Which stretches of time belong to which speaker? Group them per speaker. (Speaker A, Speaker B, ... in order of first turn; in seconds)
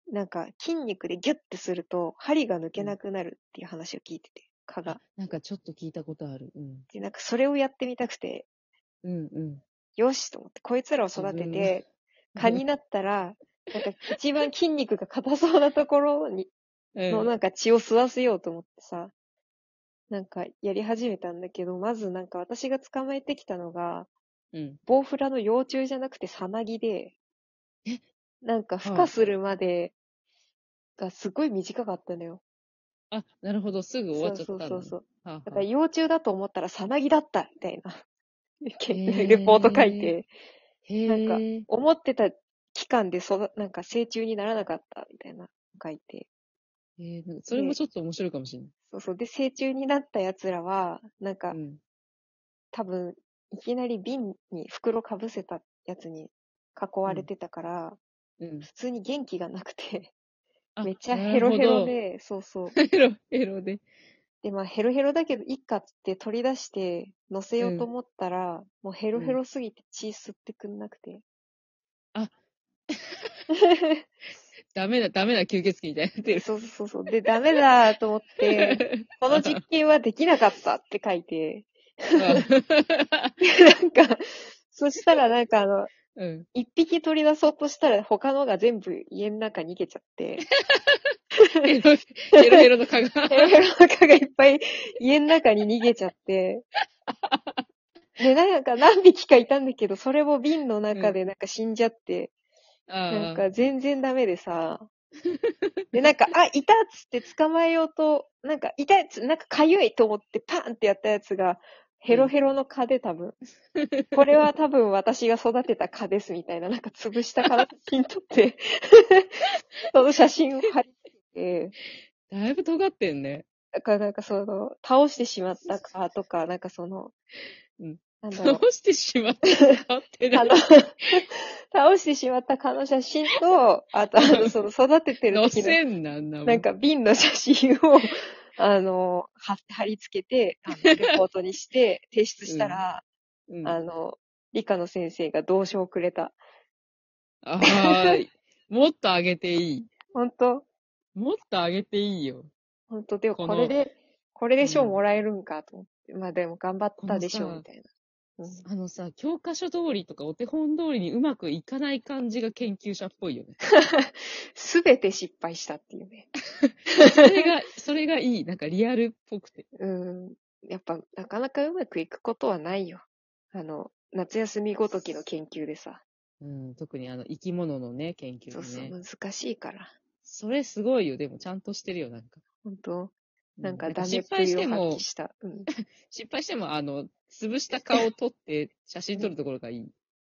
Speaker A: 0.1-5.0, 6.9-8.5, 10.0-16.5, 17.1-19.1, 20.1-24.1, 24.9-27.1, 28.4-29.9, 31.0-32.4, 34.1-38.0, 38.6-40.3, 41.1-46.3, 47.5-47.8, 48.9-51.6, 52.7-58.0, 58.6-60.1, 60.8-62.8, 64.4-71.2, 73.6-74.0, 76.3-82.5, 83.4-85.9, 86.5-90.5, 91.4-91.8, 92.3-92.7, 93.3-96.7, 98.2-102.3, 103.1-104.9, 105.9-113.4, 114.1-119.4, 119.9-121.8, 123.8-127.1, 128.2-128.6, 130.3-135.8, 136.4-143.0, 143.7-146.4, 147.7-148.2, 150.1-150.7, 152.9-157.9, 158.4-158.7, 163.7-166.3, 166.9-167.5, 169.8-176.0, 178.5-179.9, 182.7-185.7, 187.7-188.0
Speaker B: 4.8-6.9, 9.0-9.6, 11.2-11.8, 12.4-12.6, 17.0-17.3, 24.5-24.8, 28.8-29.1, 33.1-35.7, 38.9-40.1, 40.9-41.7, 47.0-48.7, 51.5-51.8, 58.4-58.7, 60.8-62.0, 62.8-63.8, 67.6-67.9, 72.9-73.4, 74.7-76.5, 78.5-79.6, 82.2-83.3, 86.2-86.5, 90.5-93.6, 97.2-97.6, 102.9-103.5, 105.3-106.0, 113.8-114.5, 122.3-123.5, 127.8-131.1, 134.2-134.5, 135.3-136.7, 140.7-141.2, 142.5-142.8, 143.5-143.8, 147.4-149.9, 151.2-152.5, 153.3-153.8, 154.6-155.0, 157.0-157.7, 158.6-163.6, 166.6-169.7, 176.4-179.0, 180.2-182.4, 183.6-185.1, 185.7-189.9